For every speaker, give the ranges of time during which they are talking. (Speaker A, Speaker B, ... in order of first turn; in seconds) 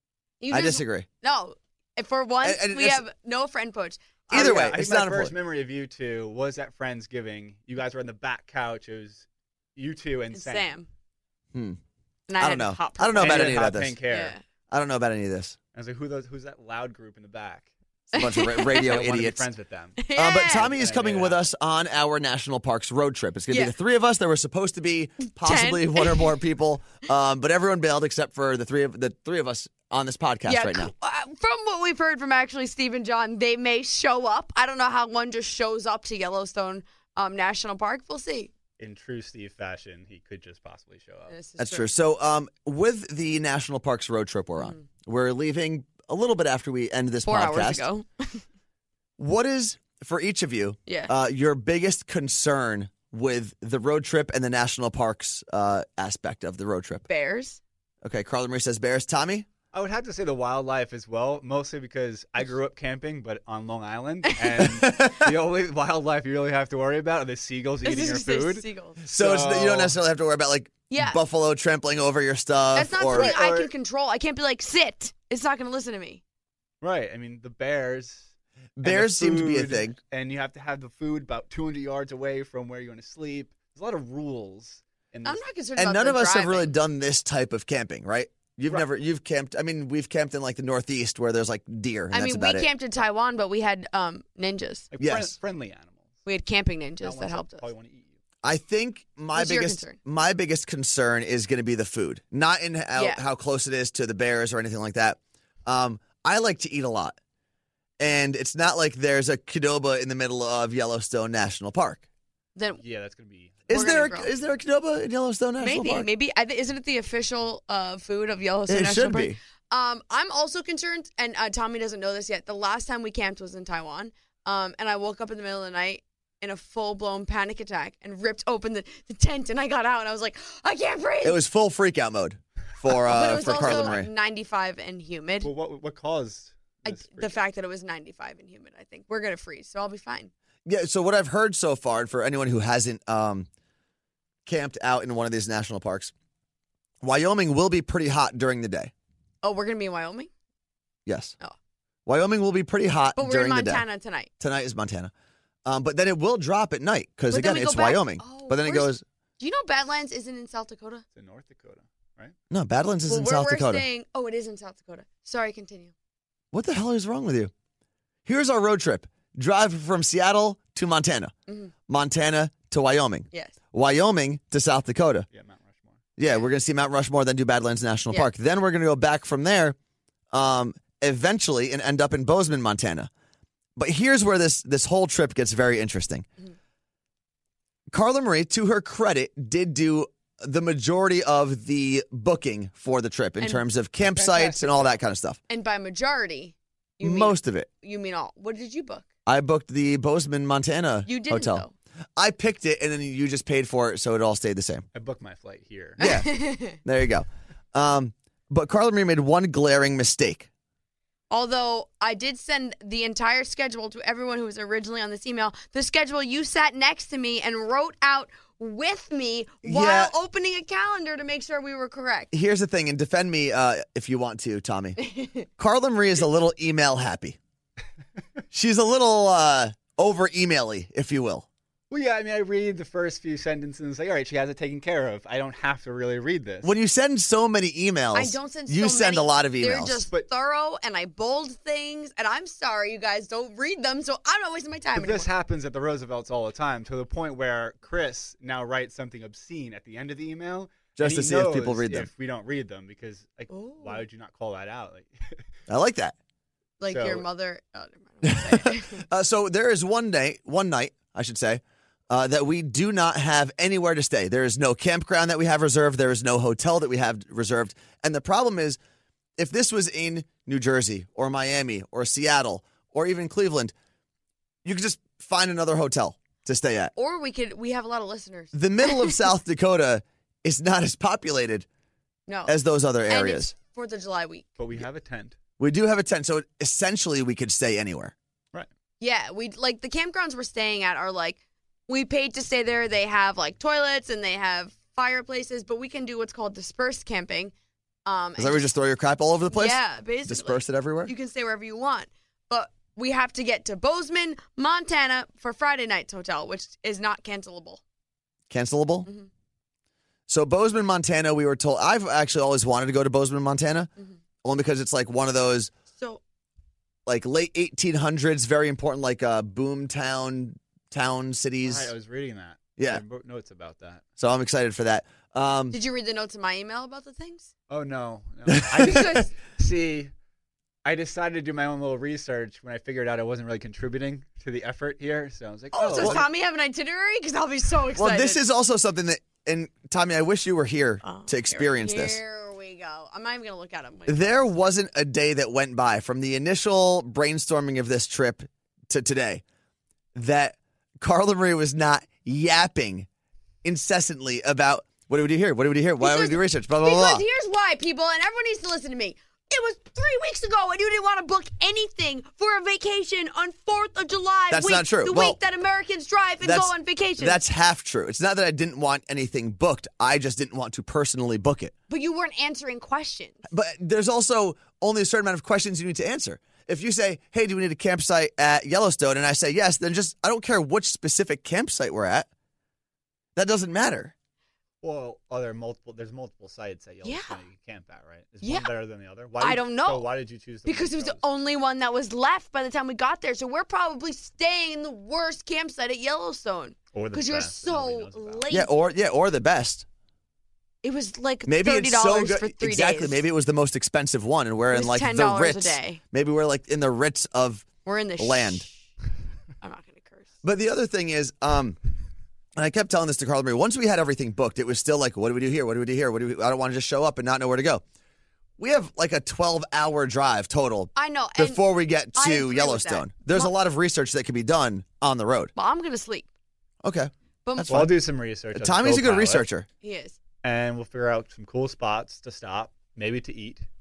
Speaker A: 0.4-4.5, 10.3-10.9, 12.3-13.6, 14.1-14.4, 18.1-18.9, 20.0-20.7, 25.2-26.4, 30.5-38.5, 41.3-41.9, 44.6-44.9, 47.3-48.4, 50.9-51.1, 57.1-57.6, 67.8-69.0, 70.9-71.2, 72.8-76.2, 85.2-86.7, 92.1-94.9, 96.3-97.7, 99.3-100.0, 103.0-103.2, 112.6-112.8, 113.7-114.3, 115.6-131.4, 132.9-135.5, 136.8-140.3, 149.4-150.3, 153.2-154.3, 157.3-161.0, 163.1-165.9, 171.5-171.7, 173.3-173.6, 193.4-193.7, 195.5-199.1, 201.1-201.7, 206.0-206.8, 211.3-222.3, 225.0-225.5, 238.1-245.3, 253.5-254.0, 256.8-259.1, 277.0-279.2, 282.3-282.6, 283.1-284.5, 289.0-297.5, 298.1-298.7, 299.5-307.8, 315.9-316.2, 325.7-327.5, 328.8-329.3, 335.7-338.4, 341.0-344.7, 356.0-367.4, 371.9-373.4, 387.0-387.4, 388.4-388.7, 389.4-390.1, 390.7-398.7, 400.8-403.2, 404.7-406.0, 407.9-408.7, 409.6-410.3, 420.9-423.5, 425.6-426.3, 427.4-427.9, 429.8-430.2
Speaker B: 0.5-1.1, 2.4-3.0, 4.3-5.3, 12.4-14.0, 14.7-15.6, 18.1-19.4, 20.1-30.9, 41.6-47.9, 49.2-57.1, 58.0-59.5, 64.6-65.3, 69.1-73.3, 78.8-80.0, 85.8-92.7, 95.0-95.4, 98.4-107.2, 108.0-112.0, 113.7-116.1, 118.7-119.4, 131.2-134.1, 140.7-143.5, 144.5-146.1, 147.0-148.9, 151.1-151.3, 152.1-153.8, 154.4-155.1, 155.7-159.0, 162.5-163.9, 166.5-167.5, 168.3-171.3, 171.9-175.3, 176.2-179.8, 180.3-183.1, 183.8-186.3, 187.9-195.4, 197.0-197.7, 199.3-201.7, 202.2-204.9, 206.0-210.5, 219.6-220.1, 222.3-225.0, 225.5-227.4, 228.5-231.5, 236.6-240.0, 251.0-252.1, 255.7-256.1, 258.2-268.8, 269.4-273.7, 274.6-276.9, 278.5-281.7, 282.5-283.5, 285.6-288.1, 298.4-301.1, 308.5-309.1, 310.3-313.9, 314.4-315.7, 317.1-321.9, 324.2-325.8, 328.5-328.9, 335.9-336.2, 338.0-342.2, 344.1-349.4, 350.1-353.1, 353.6-357.2, 364.5-365.4, 366.4-371.7, 373.5-382.3, 383.4-384.1, 398.5-399.9, 401.5-407.7, 408.2-408.7, 410.4-411.8, 412.6-417.8, 418.6-425.5, 426.8-427.9, 428.5-429.7
Speaker C: 4.3-10.7, 13.2-14.4, 15.7-17.7, 18.8-20.0, 20.5-21.5, 38.8-41.4, 59.7-70.0, 73.1-73.7, 76.8-78.3, 78.8-85.4, 94.9-96.1, 97.0-98.2, 112.8-113.8, 133.3-134.0, 135.4-137.4, 161.2-162.3, 175.3-176.0, 194.0-195.0, 204.9-206.1, 231.9-236.7, 245.0-255.4, 256.9-257.2, 284.6-285.4, 321.6-324.0, 327.7-330.1, 330.9-336.2, 384.8-391.2, 396.9-398.5, 427.7-429.5, 430.4-433.7